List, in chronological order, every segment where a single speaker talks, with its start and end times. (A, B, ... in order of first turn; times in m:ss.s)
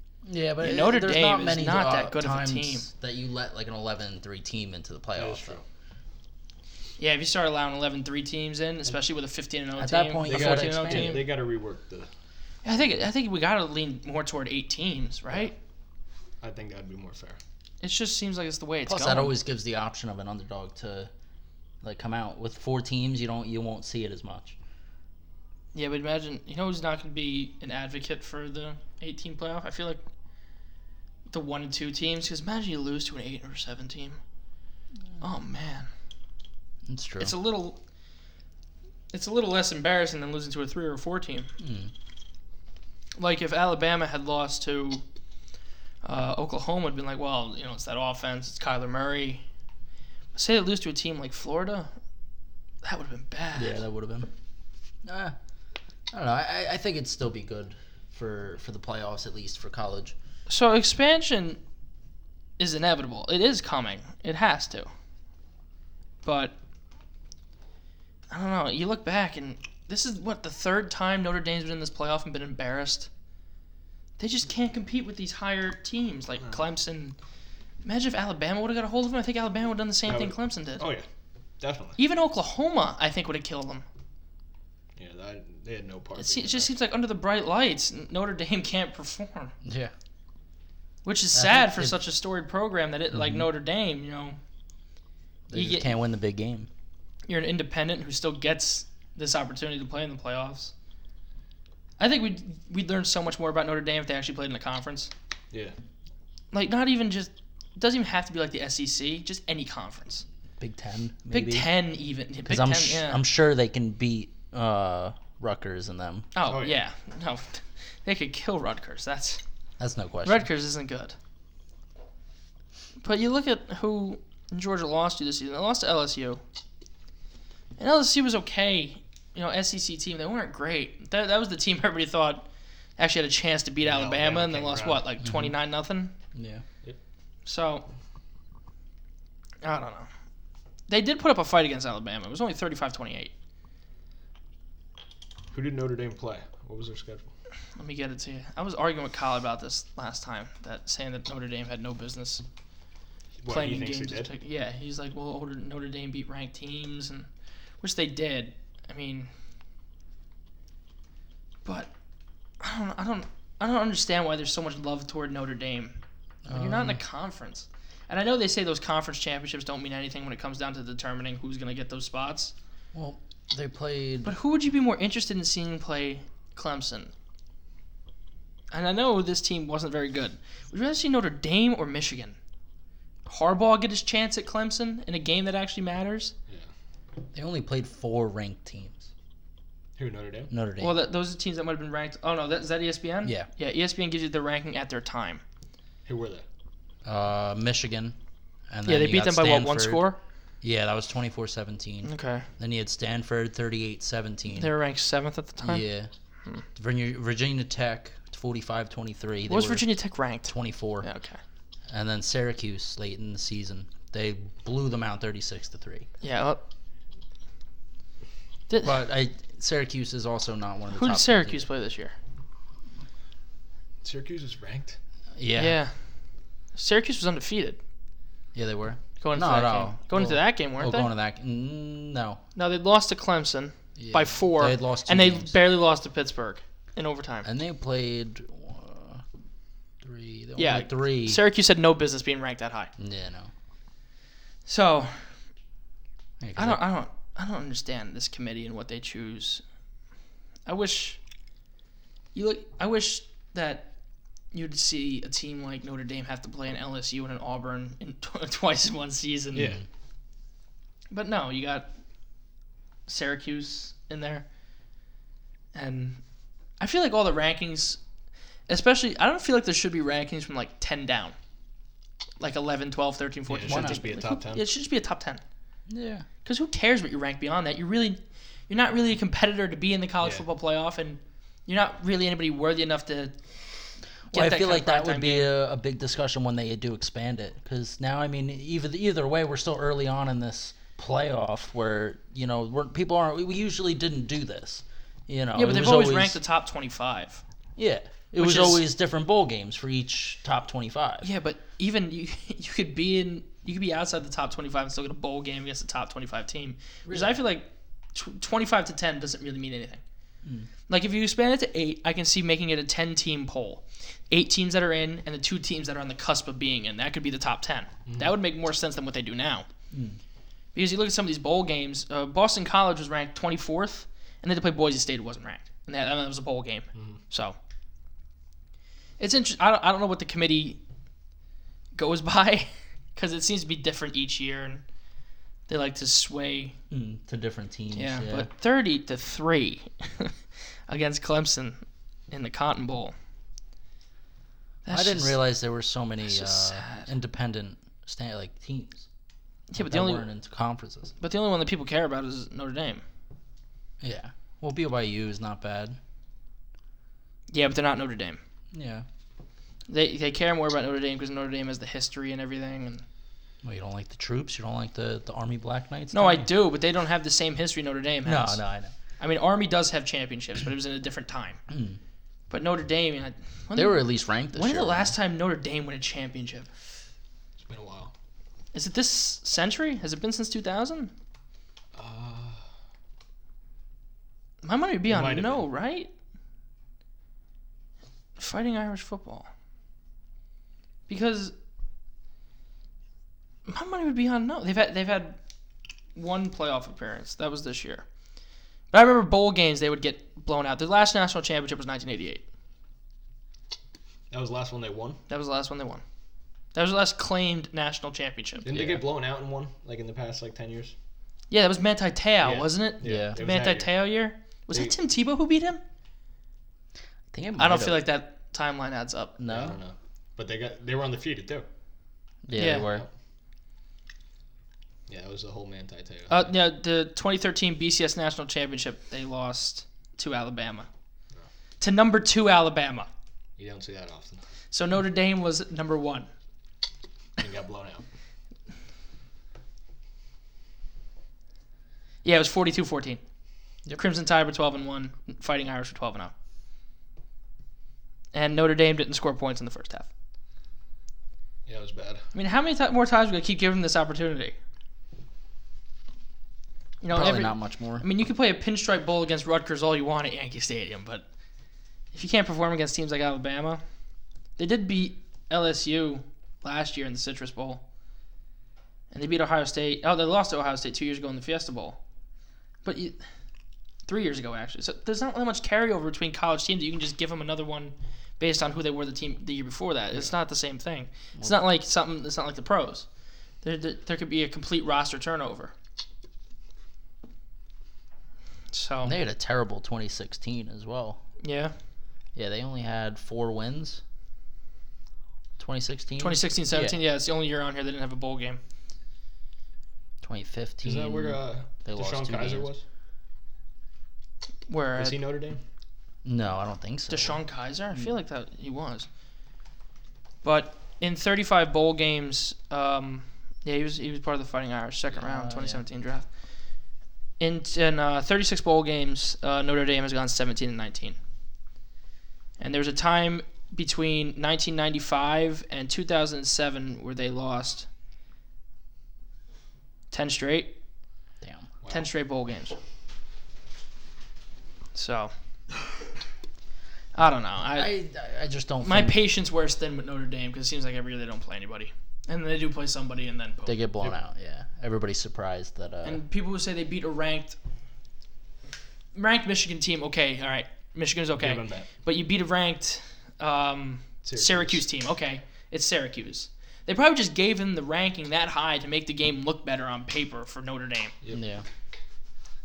0:00.2-0:05.6 A
0:00.6-0:02.9 B
0:05.2-0:05.6 C
0:07.0-0:11.3 B
0:09.8-0:11.3 A
0:10.2-0:12.1 C
0:12.6-0:15.5 B
0:16.4-0:17.4 C
0:17.8-0:19.4 B
0:18.9-0:21.1 A
0:21.8-0:24.6 A
0:25.7-0:30.0 B
0:31.3-0:34.2 B
0:35.2-0:35.9 B
0:36.9-0:37.3 A
0:37.2-0:37.8 B
0:39.1-0:41.5 B
0:41.6-0:41.9 A
0:43.2-0:45.0 B
0:46.0-0:49.4 B
0:50.3-0:51.9 B
0:52.8-0:53.8 B
0:53.5-0:54.3 A
0:55.0-0:55.3 A
0:56.1-1:00.1 A
1:00.5-1:01.6 B
1:02.6-1:04.9 B
1:06.2-1:06.5 B
1:08.3-1:13.1 B
1:14.2-1:17.2 B
1:17.8-1:20.8 B
1:20.1-1:21.0 C
1:21.6-1:22.0 C
1:22.0-1:23.8 B
1:25.0-1:26.7 C
1:26.2-1:29.5 B
1:29.6-1:29.9 A
1:31.0-1:34.4 B
1:31.3-1:32.0 A
1:33.1-1:33.5 A
1:35.5-1:36.7 A
1:35.5-1:35.9 B
1:37.3-1:40.7 B
1:42.0-1:45.1 B
1:46.5-1:50.2 B
1:50.6-1:51.7 A
1:51.3-1:53.2 B
1:52.4-1:56.3 A
1:56.3-1:59.4 B
1:56.4-1:56.8 C
1:59.8-2:00.5 A
2:00.2-2:01.1 B
2:03.0-2:06.4 B
2:07.8-2:12.5 B
2:13.0-2:16.1 B
2:13.8-2:15.0 C
2:15.2-2:15.5 A
2:16.3-2:16.6 A
2:17.4-2:17.9 B
2:19.6-2:20.1 B
2:20.9-2:23.3 B
2:25.5-2:27.3 C
2:27.8-2:32.4 B
2:33.4-2:34.3 C
2:33.5-2:37.3 B
2:37.8-2:39.3 B
2:41.6-2:41.9 B
2:42.6-2:46.0 B
2:46.4-2:47.0 A
2:46.5-2:52.5 B
2:52.9-2:54.3 A
2:54.2-2:57.1 B
2:58.7-3:02.4 B
3:03.2-3:06.3 B
3:07.3-3:09.1 A
3:10.0-3:10.5 C
3:10.5-3:11.0 A
3:10.8-3:15.4 B
3:13.2-3:13.5 A
3:16.0-3:16.4 C
3:17.0-3:18.2 A
3:18.7-3:20.1 A
3:18.9-3:20.2 B
3:20.6-3:24.7 A
3:22.0-3:22.4 B
3:24.5-3:25.9 B
3:25.6-3:26.1 A
3:26.8-3:29.9 A
3:29.5-3:31.4 B
3:30.5-3:31.0 A
3:31.9-3:36.1 A
3:36.2-3:36.6 B
3:38.7-3:39.0 B
3:38.8-3:41.7 A
3:40.9-3:42.1 B
3:44.0-3:45.0 C
3:45.4-3:45.8 A
3:45.6-3:46.0 B
3:46.7-3:47.8 B
3:48.5-3:52.4 A
3:49.2-3:51.1 B
3:52.6-3:57.5 B
3:54.0-3:55.5 A
3:57.4-3:59.2 A
4:00.0-4:01.4 A
4:00.6-4:02.9 B
4:03.0-4:03.5 A
4:04.6-4:05.3 B
4:06.4-4:06.8 A
4:06.6-4:09.6 B
4:10.6-4:11.2 B
4:12.3-4:13.9 B
4:14.5-4:19.8 B
4:19.5-4:19.8 C
4:21.1-4:21.9 B
4:23.1-4:24.4 B
4:25.7-4:26.2 B
4:26.8-4:28.0 B
4:28.7-4:31.3 B
4:32.4-4:35.4 B
4:33.5-4:34.6 C
4:33.7-4:34.2 A
4:35.9-4:36.2 A
4:36.4-4:43.3 B
4:44.3-4:56.4 A
4:44.3-4:45.5 B
4:55.5-4:57.4 B
4:57.8-5:01.3 A
4:58.4-4:58.8 B
5:01.2-5:10.0 B
5:07.0-5:07.4 A
5:10.9-5:19.7 B
5:19.9-5:20.2 A
5:20.8-5:27.6 B
5:26.9-5:27.2 C
5:29.2-5:30.8 B
5:31.9-5:34.8 B
5:35.7-5:36.8 B
5:36.9-5:38.5 A
5:37.9-5:40.4 B
5:40.9-5:43.1 B
5:44.8-5:45.4 B
5:44.9-5:49.1 A
5:46.2-5:47.1 B
5:49.7-5:50.2 B
5:49.8-5:51.1 A
5:51.2-5:53.0 B
5:54.0-5:56.0 A
5:57.5-5:58.4 B
5:58.7-5:59.0 A
5:59.9-6:03.0 B
6:03.6-6:06.5 A
6:06.1-6:08.6 B
6:08.2-6:08.9 A
6:09.2-6:11.6 B
6:11.7-6:12.0 A
6:12.5-6:16.7 B
6:13.8-6:15.1 A
6:17.6-6:18.1 C
6:18.7-6:21.1 B
6:21.9-6:22.6 C
6:24.6-6:26.1 B
6:25.1-6:25.7 C
6:28.4-6:29.5 B
6:31.1-6:31.5 B
6:33.7-6:35.4 B
6:36.1-6:38.1 B
6:38.9-6:42.4 B
6:44.3-6:45.2 C
6:45.3-6:46.0 B
6:46.7-6:48.7 B
6:48.6-6:50.9 C
6:48.7-6:49.0 A
6:51.5-6:55.8 B
6:52.4-6:54.0 C
6:53.0-6:53.4 A
6:57.3-6:58.0 A
6:57.6-6:59.4 B
6:59.4-6:59.8 A
6:59.4-7:01.6 C
7:02.4-7:03.1 A
7:02.6-7:02.9 B
7:02.6-7:03.1 C
7:05.1-7:06.5 C
7:06.3-7:10.9 B
7:11.8-7:13.1 B
7:13.6-7:14.4 C
7:14.7-7:16.3 B
7:17.4-7:18.0 C
7:22.2-7:23.2 B
7:24.0-7:26.3 B
7:28.3-7:30.1 B
7:31.6-7:32.2 C
7:32.3-7:34.6 B
7:37.0-7:41.2 B
7:37.1-7:38.0 A
7:42.1-7:43.8 B
7:44.6-7:47.8 B
7:49.1-7:52.0 B
7:52.8-7:53.2 B
7:54.1-8:03.1 B
8:03.6-8:05.7 B
8:08.7-8:09.1 B
8:09.0-8:11.2 A
8:11.4-8:11.7 B
8:12.4-8:14.0 A
8:15.6-8:17.0 A
8:16.2-8:18.6 B
8:20.2-8:22.7 A
8:20.8-8:22.8 C
8:24.7-8:25.2 B
8:24.9-8:25.6 C
8:26.2-8:27.4 A
8:27.1-8:29.1 B
8:30.4-8:36.2 B
8:35.1-8:35.8 A
8:37.4-8:41.2 B
8:42.6-8:47.9 B
8:50.1-8:50.8 B
8:51.4-8:51.7 A
8:51.8-8:52.1 C
8:51.9-8:52.8 B
8:54.9-8:55.3 B
8:57.1-8:57.9 B
8:57.7-8:59.2 A
8:58.8-9:03.8 B
9:03.6-9:06.2 A
9:06.0-9:07.6 B
9:09.1-9:21.1 B
9:11.4-9:11.9 C
9:14.2-9:14.8 C
9:21.3-9:21.6 A